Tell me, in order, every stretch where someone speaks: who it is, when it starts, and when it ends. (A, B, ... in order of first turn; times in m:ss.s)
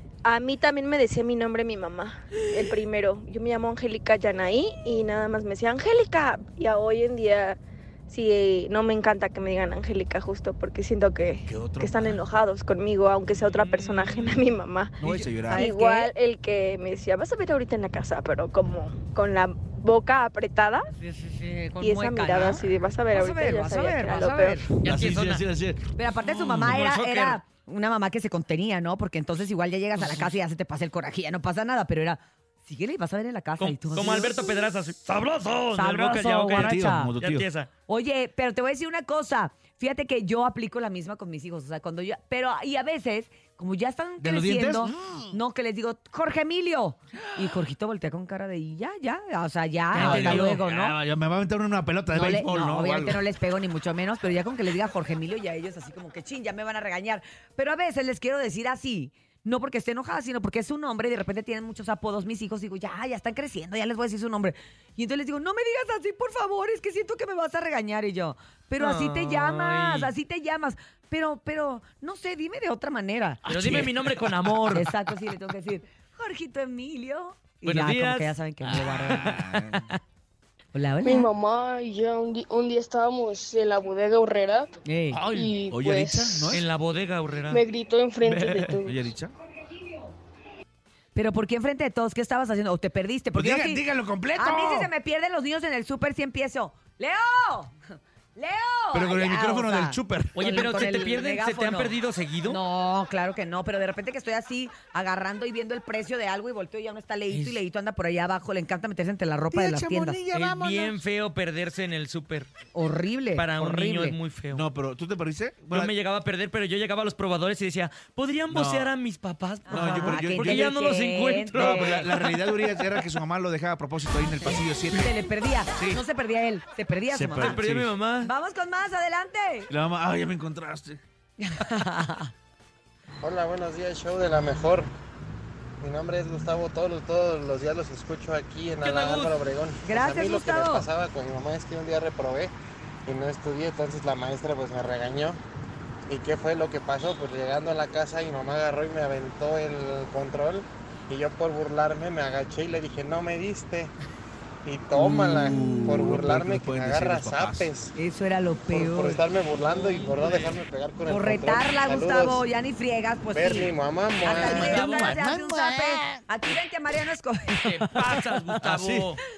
0:00.2-0:20.9 A
0:11.4-0:12.2 B
0:13.4-0:14.4 C
0:15.0-0:15.7 B
0:15.0-0:16.1 D
0:21.0-0:24.7 D
0:21.8-0:24.6 A
0:24.8-0:25.4 C
0:24.8-0:26.7 B
0:26.0-0:34.5 D
0:26.3-0:27.4 C
0:30.0-0:30.3 C
0:33.6-0:37.7 C
0:35.7-0:37.1 D
0:36.6-0:37.5 B
0:37.9-0:51.0 D
0:44.2-0:45.4 B
0:49.9-0:50.6 C
0:49.9-0:53.2 B
0:52.1-1:13.8 D
1:08.8-1:10.1 C
1:13.5-1:14.9 C
1:13.5-1:14.1 B
1:14.7-1:19.4 D
1:17.6-1:20.0 C
1:18.7-1:19.9 B
1:20.7-1:21.3 D
1:21.1-1:24.7 E
1:24.8-1:25.2 D
1:25.1-1:25.5 C
1:25.4-1:26.4 E
1:25.7-1:26.7 B
1:26.5-1:27.6 C
1:27.6-1:28.9 E
1:28.2-1:28.8 C
1:28.8-1:29.3 B
1:31.2-1:33.8 D
1:33.3-1:34.9 B
1:34.4-1:37.8 D
1:38.4-1:50.2 D
1:38.9-1:40.6 B
1:40.4-1:42.6 C
1:47.3-1:47.6 C
1:49.5-1:51.0 B
1:50.3-1:52.5 C
1:52.7-1:54.2 D
1:53.4-1:54.7 C
1:54.5-1:55.9 B
1:55.7-2:03.0 C
1:58.5-1:59.0 B
1:59.7-2:02.1 D
1:59.7-2:00.8 B
2:01.5-2:05.1 B
2:04.9-2:07.6 D
2:07.1-2:08.0 B
2:07.4-2:08.3 C
2:08.2-2:09.7 D
2:09.7-2:11.0 B
2:11.4-2:12.3 D
2:13.2-2:14.9 F
2:15.8-2:22.5 F
2:19.8-2:20.9 D
2:23.1-2:25.4 F
2:26.1-2:33.9 F
2:34.6-2:37.9 F
2:35.0-2:37.7 B
2:35.5-2:35.9 D
2:38.0-2:39.2 D
2:38.7-2:42.4 F
2:39.7-2:40.3 B
2:41.1-2:48.2 D
2:43.3-2:44.9 F
2:44.4-2:46.2 B
2:44.4-2:45.2 C
2:47.6-2:49.2 C
2:48.6-2:49.1 B